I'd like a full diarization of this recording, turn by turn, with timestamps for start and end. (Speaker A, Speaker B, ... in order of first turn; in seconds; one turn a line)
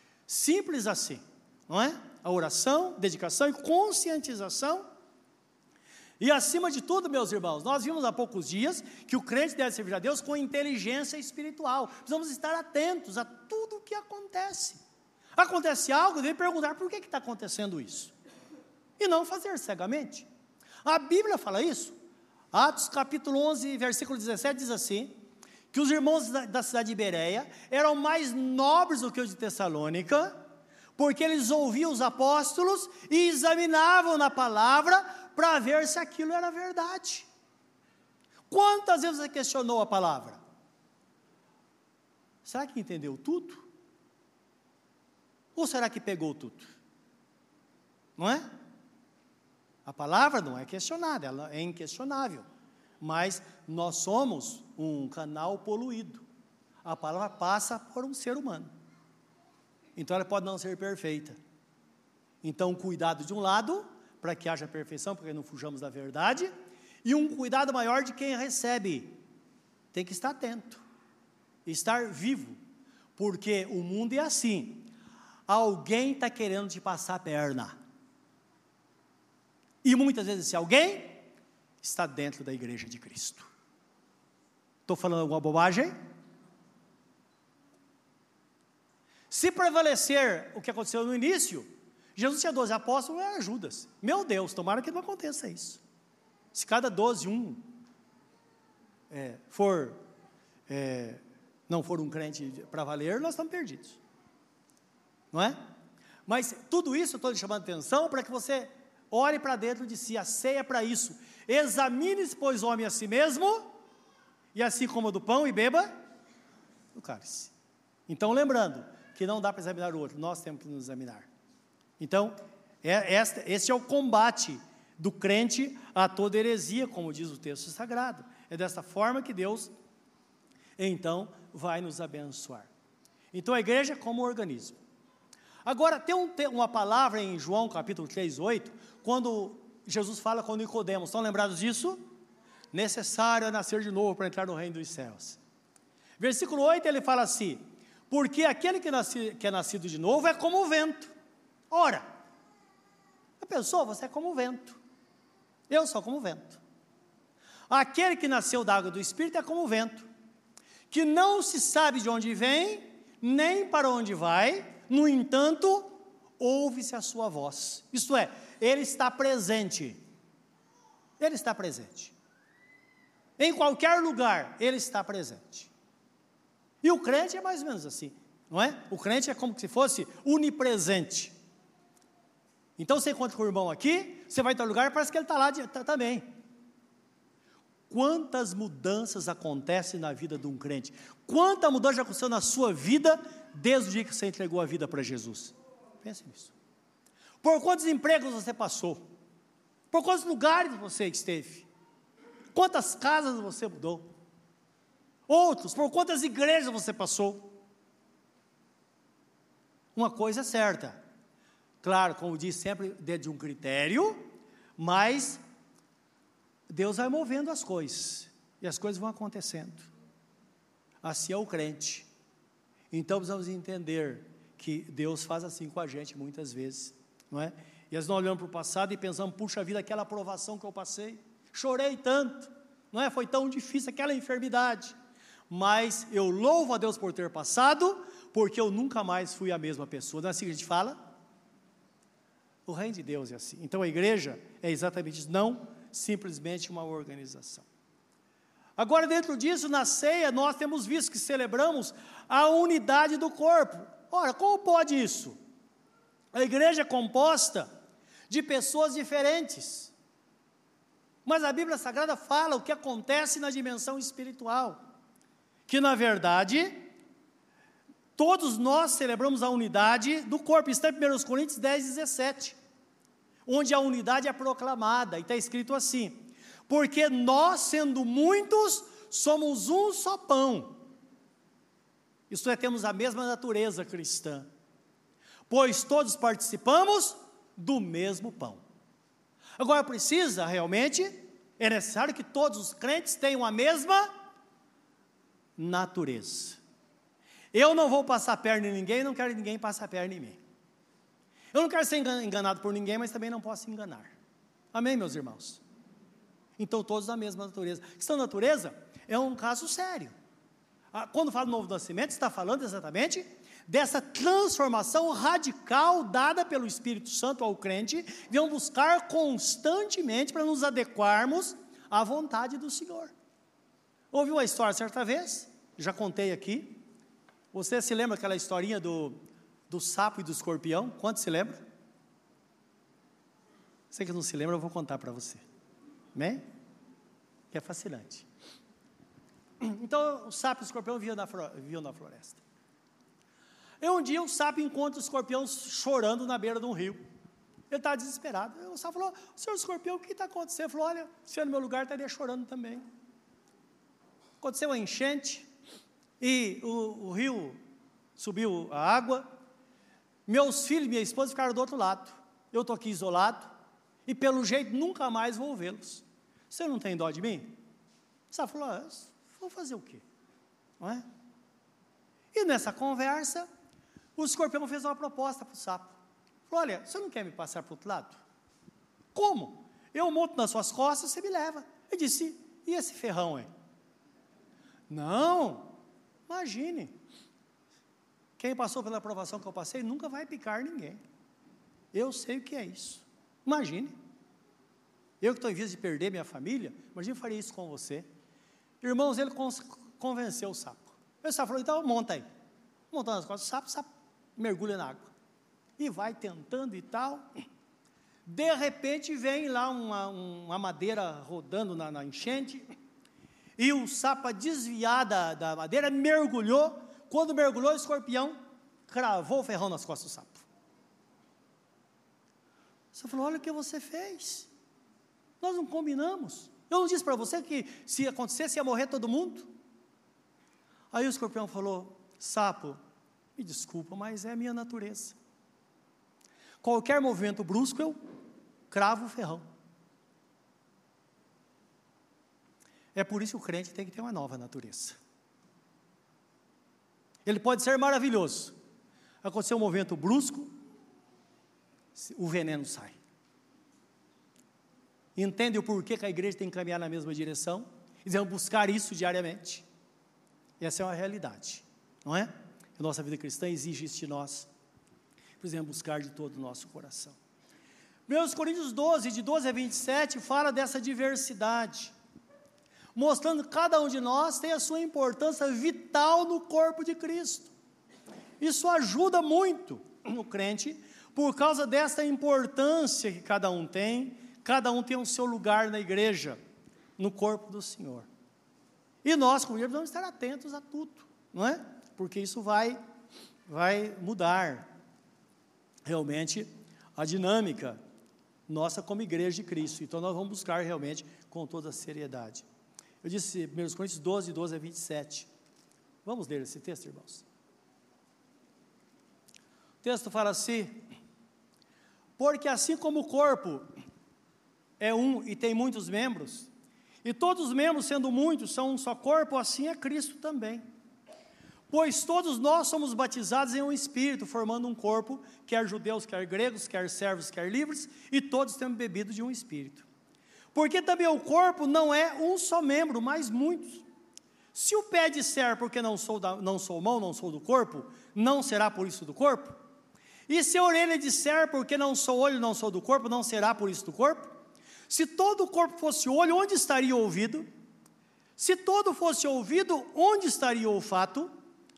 Speaker A: 0.3-4.8
Speaker A: 6.2-14.8
Speaker A: 15.4-18.1
Speaker A: 19.0-20.2
Speaker A: 20.8-21.9
Speaker A: 22.5-25.1
Speaker A: 25.7-30.3
Speaker A: 31.0-37.3
Speaker A: 38.5-40.4
Speaker A: 42.4-43.6
Speaker A: 45.5-46.7
Speaker A: 48.2-48.5
Speaker A: 49.8-52.5
Speaker A: 53.0-56.2
Speaker A: 56.8-58.7
Speaker A: 60.0-61.4
Speaker A: 62.4-66.5
Speaker A: 67.0-69.2
Speaker A: 69.9-70.8
Speaker A: 71.7-72.6
Speaker A: 73.2-74.9
Speaker A: 75.5-77.8
Speaker A: 79.8-81.2
Speaker A: 81.8-83.5
Speaker A: 84.9-85.9
Speaker A: 89.3-95.8
Speaker A: 96.5-97.7
Speaker A: 99.1-100.0
Speaker A: 100.7-104.0
Speaker A: 106.3-113.7
Speaker A: 114.5-115.9
Speaker A: 116.9-117.5
Speaker A: 118.1-121.3
Speaker A: 122.0-129.7
Speaker A: 130.8-132.7
Speaker A: 133.3-134.8
Speaker A: 135.6-142.0
Speaker A: 142.7-145.4
Speaker A: 146.2-151.1
Speaker A: 151.7-152.1
Speaker A: 153.4-154.8
Speaker A: 155.7-156.6
Speaker A: 157.7-160.1
Speaker A: 160.9-170.0
Speaker A: 171.2-172.1
Speaker A: 173.4-175.7
Speaker A: 176.8-181.3
Speaker A: 182.8-186.2
Speaker A: 187.9-196.5
Speaker A: 197.4-199.0
Speaker A: 199.9-201.7
Speaker A: 202.5-204.1
Speaker A: 205.3-207.6
Speaker A: 209.9-211.0
Speaker A: 211.8-214.2
Speaker A: 214.8-215.4
Speaker A: 216.7-219.9
Speaker A: 221.0-222.1
Speaker A: 222.9-234.9
Speaker A: 235.5-241.0
Speaker A: 242.7-247.7
Speaker A: 248.8-255.3
Speaker A: 256.3-257.7
Speaker A: 258.3-259.9
Speaker A: 261.2-264.8
Speaker A: 265.7-266.9
Speaker A: 268.1-272.6
Speaker A: 273.4-280.8
Speaker A: 282.3-284.5
Speaker A: 285.5-288.6
Speaker A: 289.6-294.1
Speaker A: 295.6-296.6
Speaker A: 297.5-300.4
Speaker A: 301.5-304.1
Speaker A: 304.7-305.6
Speaker A: 306.6-310.1
Speaker A: 310.9-323.1
Speaker A: 324.1-326.8
Speaker A: 327.5-329.2
Speaker A: 329.7-331.6
Speaker A: 333.9-335.4
Speaker A: 336.1-336.4
Speaker A: 337.5-338.2
Speaker A: 339.6-342.4
Speaker A: 343.8-347.0
Speaker A: 347.7-352.8
Speaker A: 354.4-355.5
Speaker A: 356.2-357.6
Speaker A: 358.2-359.2
Speaker A: 360.2-363.5
Speaker A: 364.1-367.6
Speaker A: 368.3-370.0
Speaker A: 372.3-373.5
Speaker A: 374.2-375.9
Speaker A: 376.5-378.2
Speaker A: 379.1-383.5
Speaker A: 384.9-385.7
Speaker A: 386.3-386.9
Speaker A: 388.4-391.0
Speaker A: 391.9-393.9
Speaker A: 395.2-398.1
Speaker A: 398.8-402.2
Speaker A: 402.9-405.1
Speaker A: 405.8-407.2
Speaker A: 408.2-412.7
Speaker A: 413.6-418.3
Speaker A: 418.9-420.4
Speaker A: 422.9-424.5
Speaker A: 425.4-429.5
Speaker A: 430.9-432.8
Speaker A: 433.4-435.1
Speaker A: 436.6-438.0
Speaker A: 438.7-439.4
Speaker A: 442.9-445.0
Speaker A: 447.2-448.5
Speaker A: 449.2-450.5
Speaker A: 451.9-453.0
Speaker A: 455.1-459.6
Speaker A: 460.6-464.5
Speaker A: 465.4-467.2
Speaker A: 468.1-471.9
Speaker A: 472.9-477.5
Speaker A: 478.4-486.4
Speaker A: 487.0-488.1
Speaker A: 489.0-492.8
Speaker A: 493.5-494.7
Speaker A: 495.8-497.8
Speaker A: 498.5-502.4
Speaker A: 503.0-505.3
Speaker A: 506.0-507.2
Speaker A: 509.8-510.8
Speaker A: 512.2-513.6
Speaker A: 514.8-516.5
Speaker A: 517.0-520.6
Speaker A: 521.7-529.9
Speaker A: 530.5-533.8
Speaker A: 534.5-539.6
Speaker A: 540.3-544.3
Speaker A: 544.9-547.5
Speaker A: 548.4-551.3